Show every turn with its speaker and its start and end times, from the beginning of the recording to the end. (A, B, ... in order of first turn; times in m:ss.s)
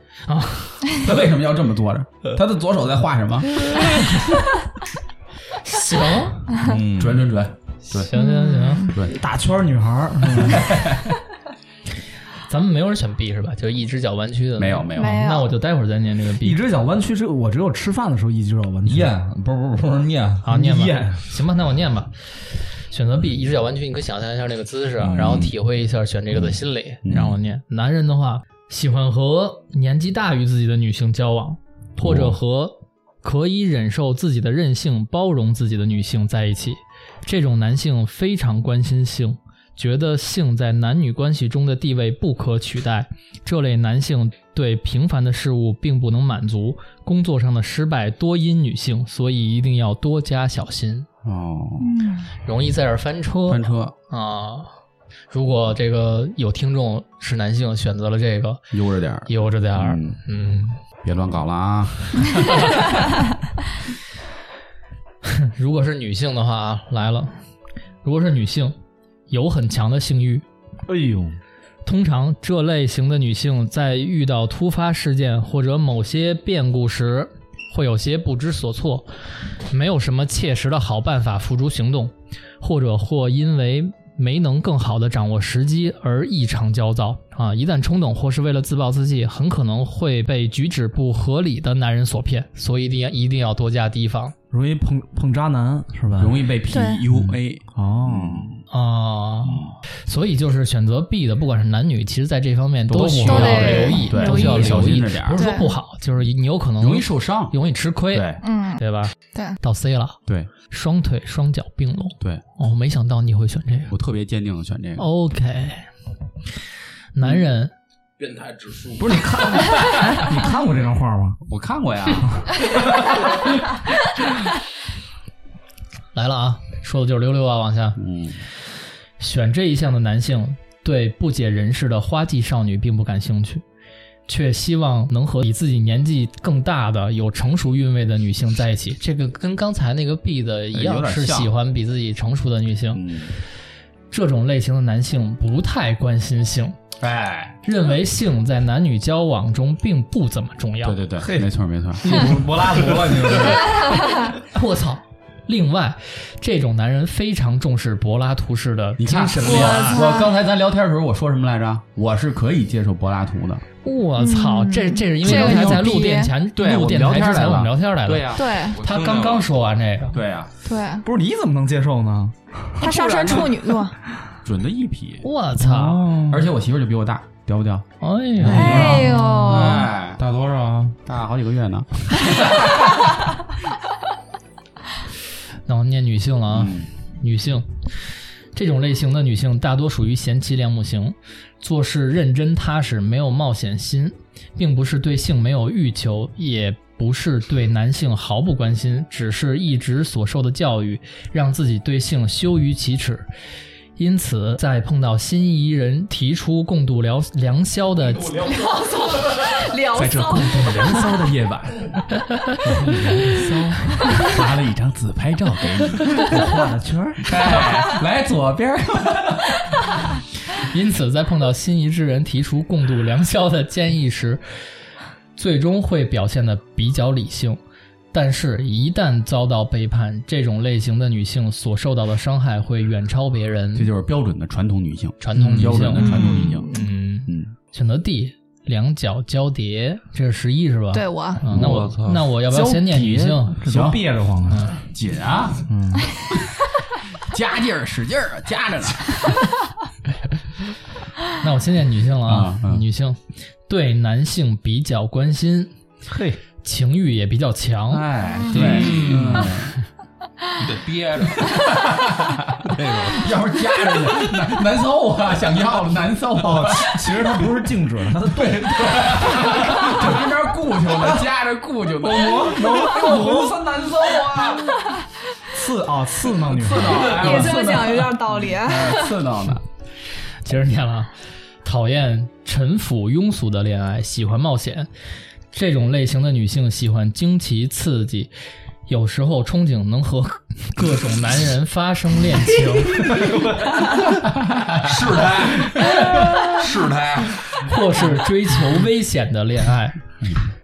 0:00.3-0:00.9 A
0:00.9-0:03.7 B
0:05.6-0:06.6 A
0:06.5-0:07.3 C
0:07.0-0:08.1 B
0:07.9-0:08.9 A
0:08.1-0:09.0 D
0:08.9-0:09.2 B
0:09.1-0:10.7 E
0:10.5-0:11.0 B
0:12.5-0:16.6 A
0:14.6-0:15.3 B
0:14.9-0:15.5 D
0:16.4-0:19.1 E
0:18.8-0:20.4 C
0:20.4-0:51.1 A
0:20.5-0:21.3 E
0:25.1-0:25.4 B
0:27.0-0:27.4 B
0:32.0-0:32.4 B
0:51.2-0:51.9 B
0:51.8-0:52.3 D
0:52.4-0:54.7 A
0:53.5-0:53.9 B
0:55.3-0:58.7 A
0:58.7-1:00.2 B
0:59.3-1:00.8 A
1:01.0-1:02.4 B
1:05.2-1:07.4 A
1:08.0-1:08.8 A
1:09.3-1:10.4 A
1:10.9-1:11.4 E
1:11.8-1:34.3 A
1:34.5-1:36.4 E
1:36.2-1:38.6 B
1:36.7-1:37.0 D
1:37.1-1:38.5 E
1:38.7-1:53.9 A
1:42.9-1:45.4 B
1:43.2-1:45.7 D
1:46.8-1:47.5 B
1:48.1-1:48.4 B
1:48.4-1:49.6 D
1:53.9-1:55.0 B
1:55.0-1:55.9 A
1:57.1-1:57.7 A
1:58.2-1:59.2 C
1:59.0-2:01.4 E
2:01.4-2:02.4 B
2:02.4-2:03.1 E
2:06.1-2:08.0 A
2:08.0-2:08.4 B
2:09.2-2:13.6 A
2:14.3-2:23.2 A
2:20.7-2:21.5 B
2:22.9-2:23.3 B
2:24.1-2:26.8 A
2:27.0-2:27.6 B
2:27.6-2:31.0 A
2:30.8-2:32.2 B
2:31.2-2:31.5 E
2:32.0-2:33.9 E
2:34.4-2:40.0 A
2:39.0-2:43.6 B
2:39.4-2:40.3 D
2:43.8-2:50.2 A
2:44.2-2:46.3 D
2:45.2-2:45.9 B
2:46.5-2:48.6 B
2:48.3-2:48.8 D
2:48.7-2:49.5 C
2:50.1-2:50.5 B
2:50.6-2:51.0 D
2:51.0-2:53.3 E
2:52.8-2:54.0 D
2:52.9-2:53.5 B
2:54.4-2:55.2 B
2:55.2-2:56.2 A
2:55.6-2:56.4 E
2:56.3-2:57.8 B
2:58.0-2:59.1 A
2:58.4-2:59.6 E
2:58.4-2:59.9 D
2:58.5-3:00.2 B
2:59.4-3:01.0 C
3:01.0-3:03.1 B
3:05.6-3:23.3 A
3:06.5-3:06.9 B
3:24.0-3:28.4 A
3:28.4-3:31.0 D
3:30.0-3:31.9 B
3:32.3-3:32.6 A
3:32.6-3:34.2 E
3:34.1-3:36.5 B
3:36.2-3:37.4 E
3:37.2-3:39.7 B
3:40.5-3:44.4 A
3:45.4-3:47.6 A
3:48.1-3:53.9 A
3:53.7-3:56.7 B
3:55.2-4:03.6 A
3:55.5-3:56.4 E
3:56.3-3:56.8 D
4:00.9-4:01.5 D
4:01.5-4:02.2 C
4:02.4-4:04.7 E
4:03.6-4:04.0 B
4:04.5-4:04.8 A
4:04.7-4:05.6 B
4:05.7-4:06.1 E
4:07.2-4:09.3 B
4:11.3-4:15.8 A
4:12.2-4:12.8 B
4:16.1-4:16.4 E
4:16.6-4:18.1 A
4:17.9-4:19.8 B
4:18.5-4:19.6 C
4:20.5-4:21.7 C
4:21.4-4:27.0 B
4:22.6-4:23.3 C
4:26.4-4:30.1 E
4:28.4-4:34.8 B
4:30.9-4:31.2 E
4:32.0-4:33.6 E
4:35.5-4:37.4 E
4:36.5-4:39.6 B
4:37.0-4:39.2 D
4:40.4-4:44.9 A
4:45.5-4:48.3 A
4:48.9-4:53.3 A
4:54.2-4:55.0 B
4:54.8-4:57.5 C
4:57.6-5:00.0 A